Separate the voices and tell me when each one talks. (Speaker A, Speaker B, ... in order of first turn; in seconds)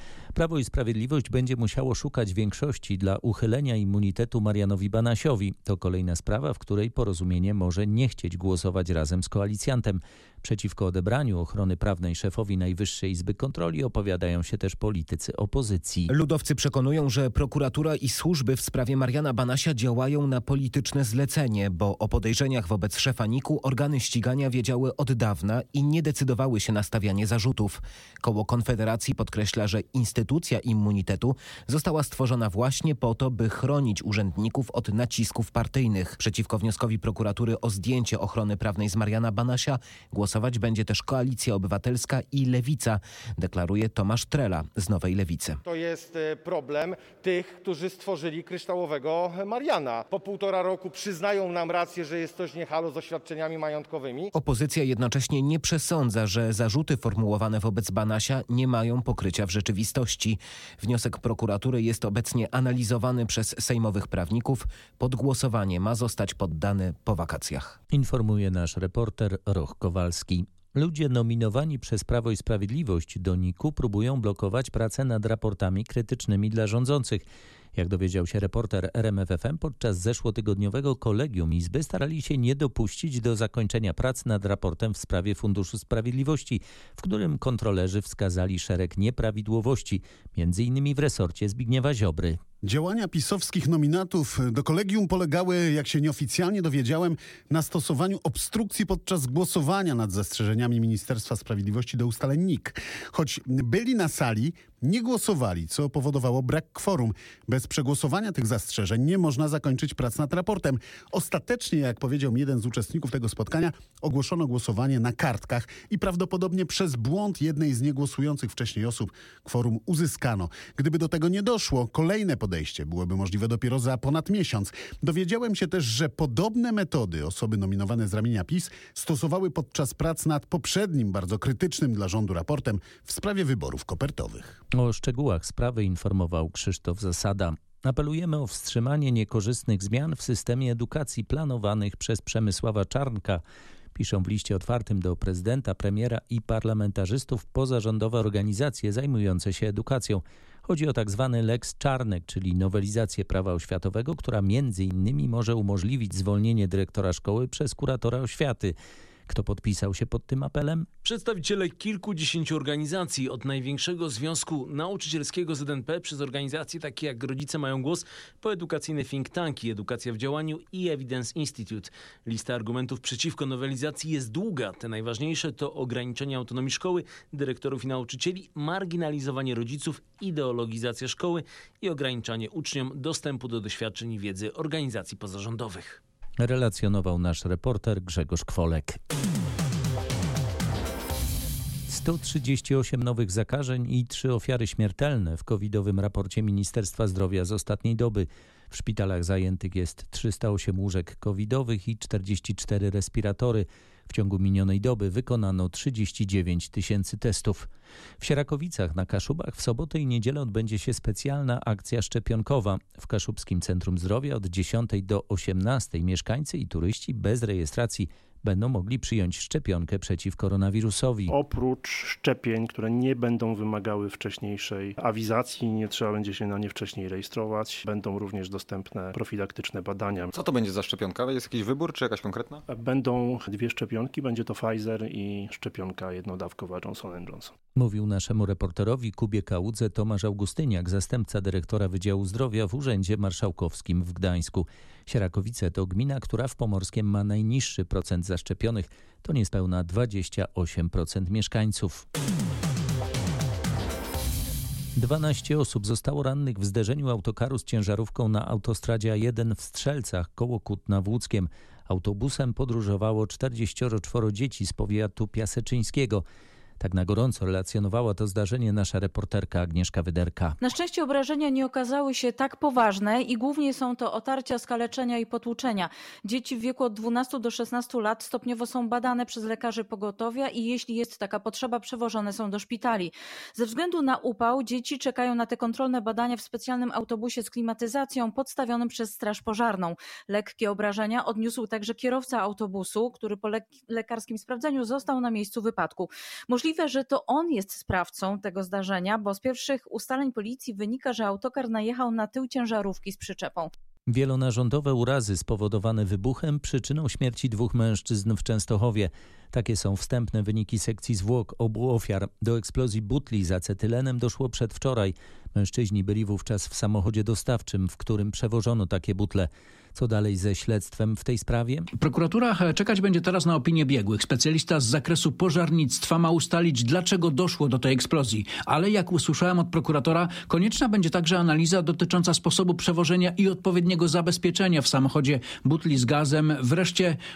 Speaker A: 0.3-16.1, 67.9-77.2, 77.7-92.4, 134.7-143.4, 143.9-158.7, 159.3-160.9, 186.4-189.0, 191.9-207.7, 208.2-221.3, 237.8-252.0, 254.9-266.2, 266.8-270.6, 304.1-321.9
Speaker B: 16.1-45.6, 54.3-67.8
Speaker C: 45.6-54.2
Speaker D: 92.6-134.6
Speaker E: 161.0-186.0
Speaker F: 221.3-230.3, 232.7-237.5
Speaker G: 230.3-232.6
Speaker H: 270.6-303.7
Speaker I: 321.9-337.2